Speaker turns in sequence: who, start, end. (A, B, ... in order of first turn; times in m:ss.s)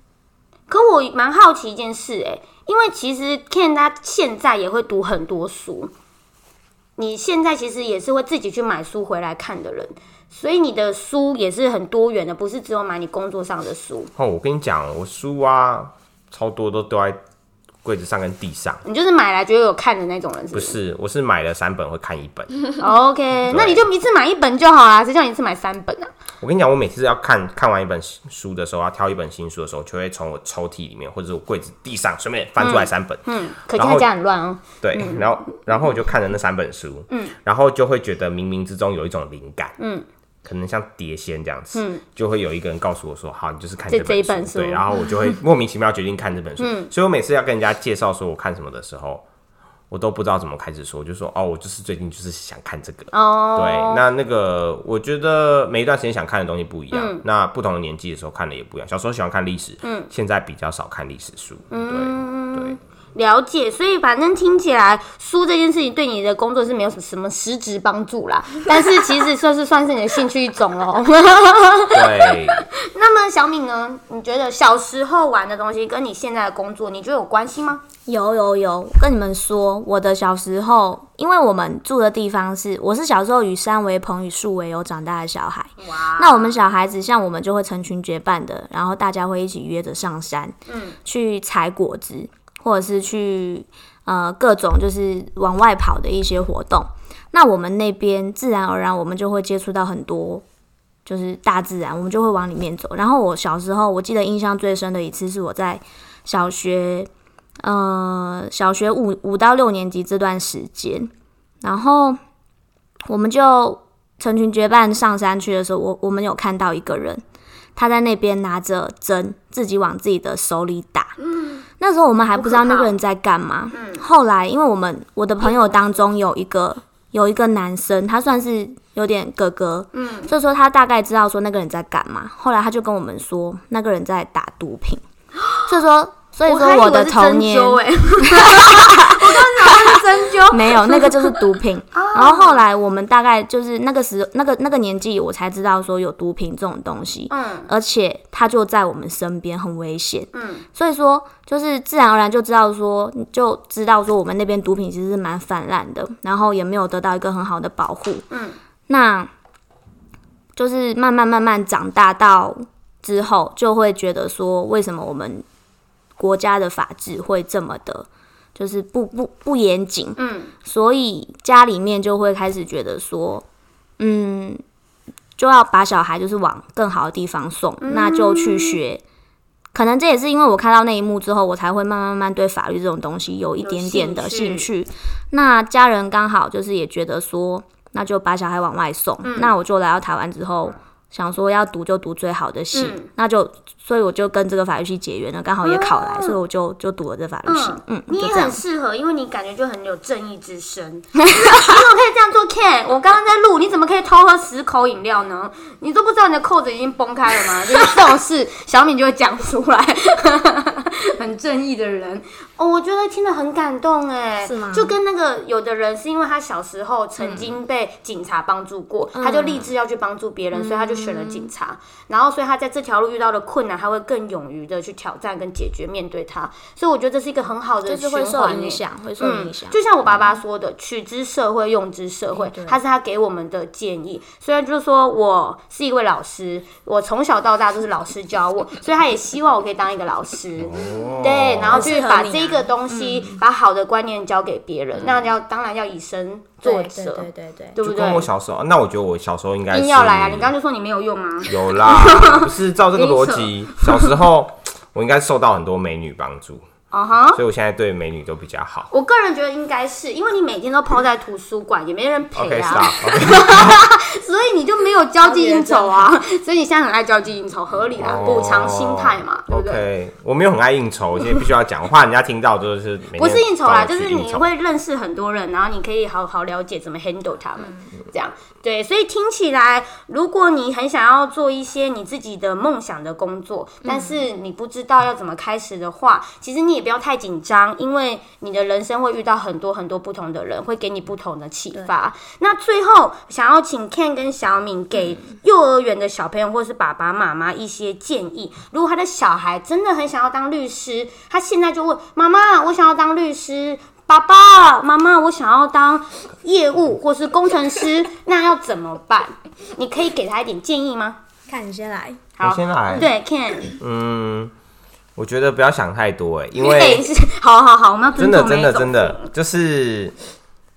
0:00.7-0:05.9 A
0:07.0-0:14.1 A
0:14.2-0:17.2 B
0:17.8-0:18.8 B
0:18.8-0:20.8 A
0:20.5-0:22.6 B
0:22.8-0:26.1 A
0:23.5-0:23.8 B
0:26.4-0:34.1 B
0:32.6-0:35.3 A
0:34.8-0:39.8 B
0:37.1-0:37.4 A
0:39.8-0:40.1 A
0:40.4-0:49.2 B
0:41.7-0:42.0 A
0:43.9-0:45.0 A
0:46.6-0:46.9 A
0:49.9-1:02.8 B
0:53.1-0:54.0 A
0:56.9-0:57.2 A
0:59.8-1:00.1 A
1:01.7-1:17.8 A
1:11.9-1:12.7 B
1:18.1-1:40.4 C
1:25.8-1:26.7 A
1:30.7-1:31.0 A
1:41.0-1:47.1 C
1:47.6-1:51.1 C
1:51.6-1:52.2 C
1:53.1-1:57.2 C
1:57.8-2:01.2 C
2:01.3-2:01.6 A
2:01.8-2:15.0 C
2:02.4-2:03.0 A
2:03.7-2:04.1 A
2:05.4-2:05.8 A
2:09.9-2:10.3 A
2:15.4-2:15.7 A
2:15.7-2:38.3 C
2:16.5-2:22.6 A
2:27.3-2:27.7 A
2:30.3-2:30.7 A
2:38.3-2:38.6 A
2:38.9-2:39.3 C
2:40.6-2:45.4 C
2:46.2-2:53.4 C
2:50.2-2:50.5 A
2:54.0-2:54.6 C
2:55.4-2:59.0 C
2:57.8-2:58.8 A
2:59.7-3:18.6 C
3:03.6-3:04.7 A
3:09.2-3:09.5 A
3:12.7-3:13.1 A
3:15.6-3:16.4 A
3:17.5-4:08.3 A
3:34.4-3:35.0 C
3:37.2-3:37.6 C
3:39.1-3:39.7 C
3:40.5-3:41.5 C
3:47.9-3:49.8 C
3:52.3-3:52.8 C
4:00.6-4:01.9 B
4:01.7-4:03.4 C
4:06.6-4:07.8 C
4:07.8-4:10.5 B
4:09.7-4:14.1 A
4:11.5-4:16.6 B
4:16.9-4:17.4 A
4:17.3-4:18.9 B
4:18.9-4:29.8 A
4:22.4-4:23.8 B
4:25.2-4:26.2 C
4:28.0-4:34.5 B
4:33.2-5:11.2 A
4:37.6-4:37.9 C
4:43.8-4:44.3 C
5:11.5-5:12.2 C
5:12.4-5:13.8 A
5:12.4-5:13.1 B
5:13.7-5:14.5 B
5:15.2-5:17.1 B
5:16.6-5:19.3 A
5:18.2-5:20.2 B